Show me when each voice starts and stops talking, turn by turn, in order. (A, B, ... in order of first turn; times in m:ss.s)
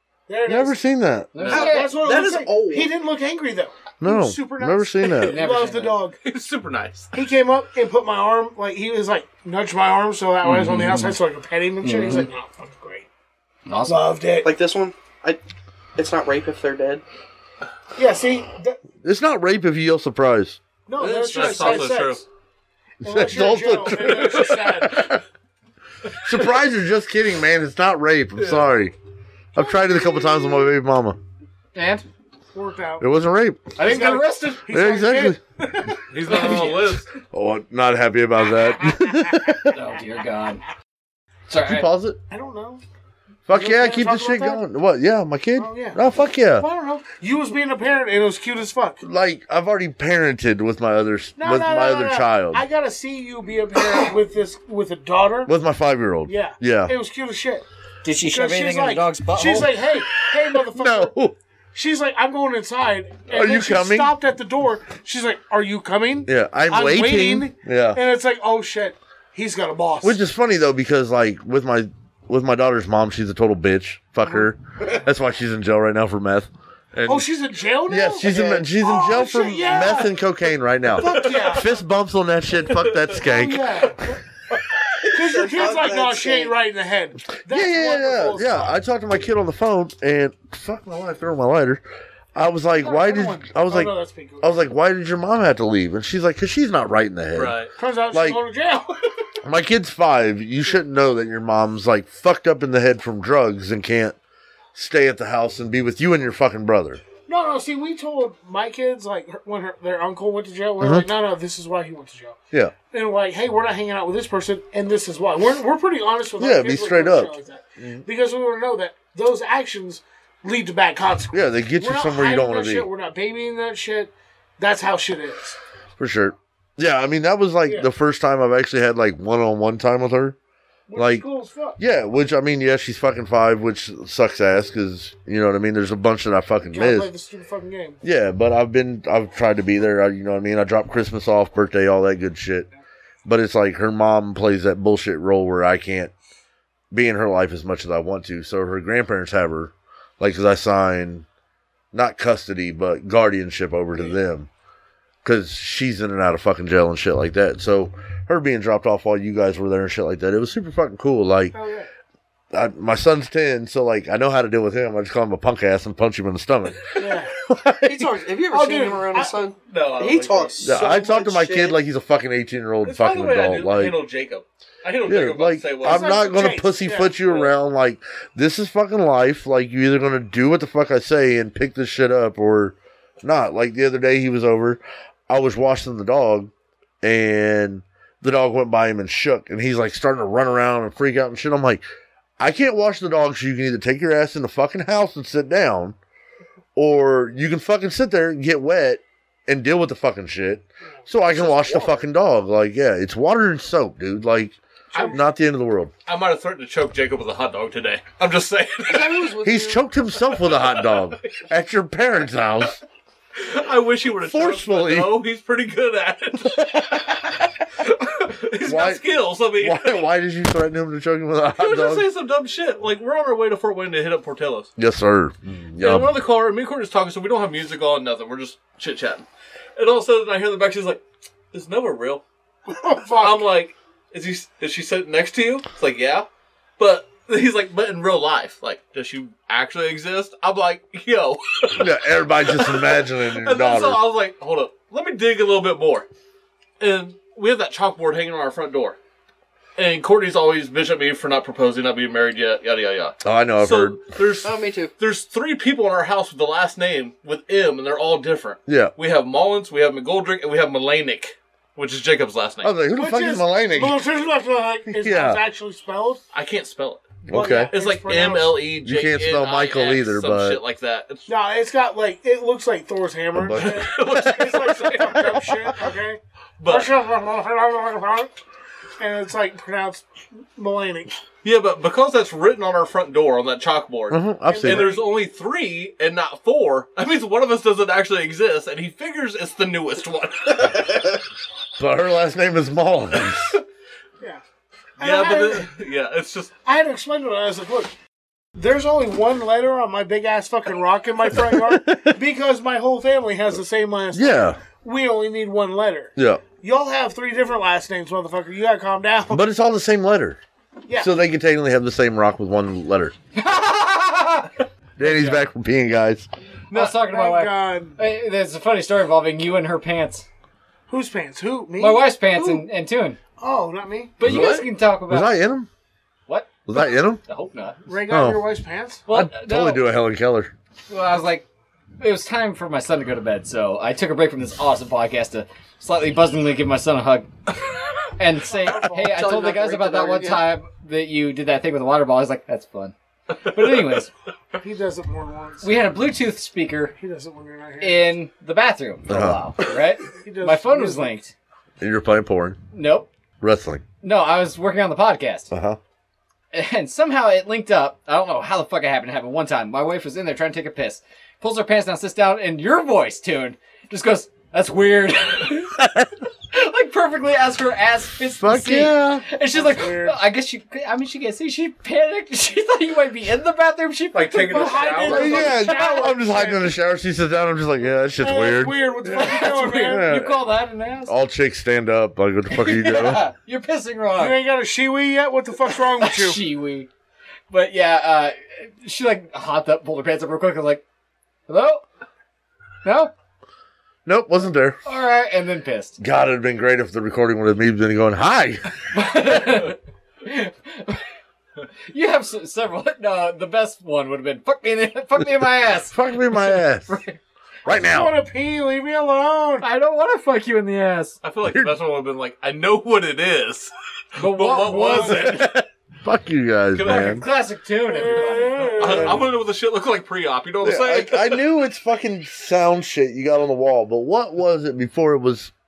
0:00.3-0:00.8 A
0:00.4-0:01.3 B
0:01.3-0:01.9 C
0:01.4-0:01.7 D
0:01.4-0:02.9 E
0:01.5-0:06.2 A
0:04.0-0:05.4 B
0:05.3-0:06.0 C
0:06.2-0:07.1 D
0:07.1-0:13.1 A
0:10.4-0:11.2 C
0:11.8-0:12.3 C
0:13.6-0:14.0 C
0:13.9-0:14.6 A
0:14.4-0:15.4 E
0:16.0-0:17.0 E
0:18.0-0:18.8 A
0:19.0-0:20.6 B
0:20.9-0:22.2 A
0:21.0-0:21.8 E
0:21.3-0:22.2 D
0:23.0-0:25.2 A
0:23.0-0:25.2 B
0:26.2-0:28.9 B
0:28.4-0:28.6 D
0:29.5-0:30.6 A
0:29.6-0:31.2 B
0:31.7-0:32.1 C
0:32.5-0:33.1 A
0:33.0-0:33.7 B
0:33.8-0:34.6 C
0:33.8-0:36.6 A
0:34.7-0:35.4 B
0:36.1-0:37.0 D
0:36.2-0:37.0 C
0:37.3-0:39.8 B
0:39.7-0:40.6 C
0:41.5-0:41.9 C
0:41.6-0:42.2 B
0:42.3-0:42.8 A
0:43.5-0:46.7 B
0:43.5-0:44.6 A
0:45.6-0:46.0 A
0:46.5-0:49.0 A
0:49.0-0:52.6 B
0:51.4-0:55.5 A
0:55.4-0:56.9 B
0:56.3-0:57.6 A
0:58.0-0:59.7 C
0:58.2-1:01.2 A
1:00.5-1:01.3 B
1:01.7-1:10.2 A
1:03.3-1:04.1 B
1:06.2-1:08.0 B
1:10.0-1:17.3 B
1:14.2-1:14.5 A
1:17.0-1:20.1 A
1:17.8-1:24.1 B
1:21.0-1:21.8 A
1:21.0-1:21.6 D
1:22.7-1:23.1 D
1:23.1-1:24.2 A
1:25.0-1:26.5 E
1:25.1-1:28.8 A
1:27.4-1:31.8 B
1:32.3-1:37.6 B
1:32.8-1:34.6 A
1:37.3-1:37.7 D
1:37.8-1:39.0 A
1:38.1-1:38.4 B
1:39.4-1:44.2 B
1:44.7-1:47.0 B
1:47.2-1:52.4 A
1:50.8-1:51.1 B
1:52.9-2:05.6 A
1:56.4-1:58.0 B
2:01.3-2:02.9 B
2:06.0-2:10.4 B
2:07.6-2:07.9 A
2:10.9-2:11.8 A
2:10.9-2:11.2 B
2:11.8-2:17.1 B
2:16.7-2:18.0 A
2:18.0-2:22.7 B
2:23.2-2:26.1 B
2:26.9-2:31.2 B
2:31.9-2:34.5 B
2:35.2-2:41.6 B
2:41.5-2:41.9 A
2:42.5-2:48.1 B
2:47.0-2:47.3 A
2:47.8-2:51.8 E
2:48.5-2:49.4 A
2:49.7-2:50.7 D
2:50.6-2:54.0 B
2:52.8-2:56.2 D
2:55.0-3:11.8 B
2:55.8-2:57.2 A
2:57.2-2:57.5 D
3:12.4-3:16.0 B
3:16.8-3:25.9 B
3:21.5-3:22.0 E
3:24.9-3:25.2 A
3:26.0-3:29.4 D
3:28.9-3:29.8 E
3:29.4-3:32.8 B
3:30.3-3:31.3 D
3:33.4-3:37.2 D
3:34.2-3:35.2 B
3:36.5-3:37.0 B
3:37.8-3:40.0 D
3:38.6-3:42.1 B
3:41.6-3:44.7 D
3:44.8-3:46.1 B
3:45.8-3:51.0 D
3:51.5-3:52.2 D
3:52.7-3:53.5 A
3:53.1-3:56.3 D
3:56.8-4:06.0 D
4:01.8-4:04.0 B
4:06.8-4:09.0 D
4:09.8-4:22.7 D
4:13.2-4:14.0 B
4:14.4-4:14.9 E
4:18.7-4:18.9 B
4:22.6-4:24.0 B
4:23.0-4:26.2 A
4:24.9-4:25.4 B
4:26.3-4:27.1 D
4:27.2-4:27.7 B
4:27.3-4:28.7 A
4:27.7-4:31.3 D
4:28.8-4:30.6 B
4:31.3-4:38.3 A
4:33.3-4:34.6 B
4:33.5-4:35.3 D
4:35.2-4:35.7 B
4:36.6-4:36.9 D
4:39.0-4:41.2 A
4:41.4-4:50.9 D
4:44.1-4:44.9 B
4:44.5-4:45.1 A
4:51.8-4:53.6 B
4:55.0-4:55.7 A
4:55.0-4:56.5 D
4:56.6-4:57.9 A
4:58.6-5:09.4 A
5:01.4-5:02.2 B
5:04.1-5:04.6 B
5:06.2-5:06.4 B
5:09.3-5:10.4 B
5:10.9-5:11.1 A
5:11.0-5:13.1 B
5:13.3-5:15.4 C
5:15.0-5:16.3 B
5:16.7-5:20.2 C
5:16.7-5:18.0 A
5:20.9-5:22.1 A
5:21.8-5:23.2 C
5:23.4-5:24.2 A
5:24.2-5:25.3 C
5:24.2-5:25.7 B
5:24.3-5:24.6 E
5:26.3-5:26.7 C
5:26.6-5:27.2 B
5:27.2-5:27.8 C
5:27.9-5:29.0 A
5:28.1-5:28.4 B
5:29.1-5:29.9 C
5:29.1-5:30.5 B
5:30.9-5:31.4 C
5:32.0-5:37.3 C
5:38.2-5:44.1 C
5:38.4-5:39.3 A
5:39.0-5:40.5 E
5:44.6-5:45.8 A
5:45.6-5:46.9 C
5:47.0-5:48.1 A
5:47.8-5:51.3 C
5:49.1-5:49.5 B
5:50.2-5:51.2 A
5:51.8-5:52.6 B
5:52.7-5:53.1 C
5:53.4-5:53.8 B
5:54.0-5:55.5 C
5:55.5-5:55.8 B
5:56.5-6:05.8 C
6:05.8-6:06.1 B
6:06.5-6:16.1 C
6:08.4-6:09.2 B
6:09.5-6:10.2 A
6:14.1-6:15.5 D
6:14.3-6:16.7 A
6:15.0-6:20.4 B
6:18.2-6:20.1 A
6:19.1-6:21.2 C
6:21.1-6:23.2 B
6:22.5-6:24.4 C
6:24.1-6:26.4 A
6:26.0-6:26.9 C
6:27.5-6:30.8 C
6:31.5-6:31.8 C
6:32.8-6:33.1 C
6:34.0-6:34.8 B
6:34.8-6:36.0 C
6:36.0-6:38.7 B
6:38.9-6:41.0 C
6:41.9-6:47.2 C
6:45.9-6:47.0 B
6:47.6-6:48.1 B
6:47.7-6:49.6 A
6:49.6-6:51.2 C
6:51.2-6:55.5 D
6:51.4-6:51.8 B
6:54.2-6:55.5 C
6:54.8-6:55.2 A
6:55.2-6:57.2 B
6:56.7-6:57.3 D
6:56.8-6:59.0 C
6:57.9-6:59.3 A
6:58.2-7:01.4 D
6:58.8-6:59.3 B
7:00.6-7:05.5 B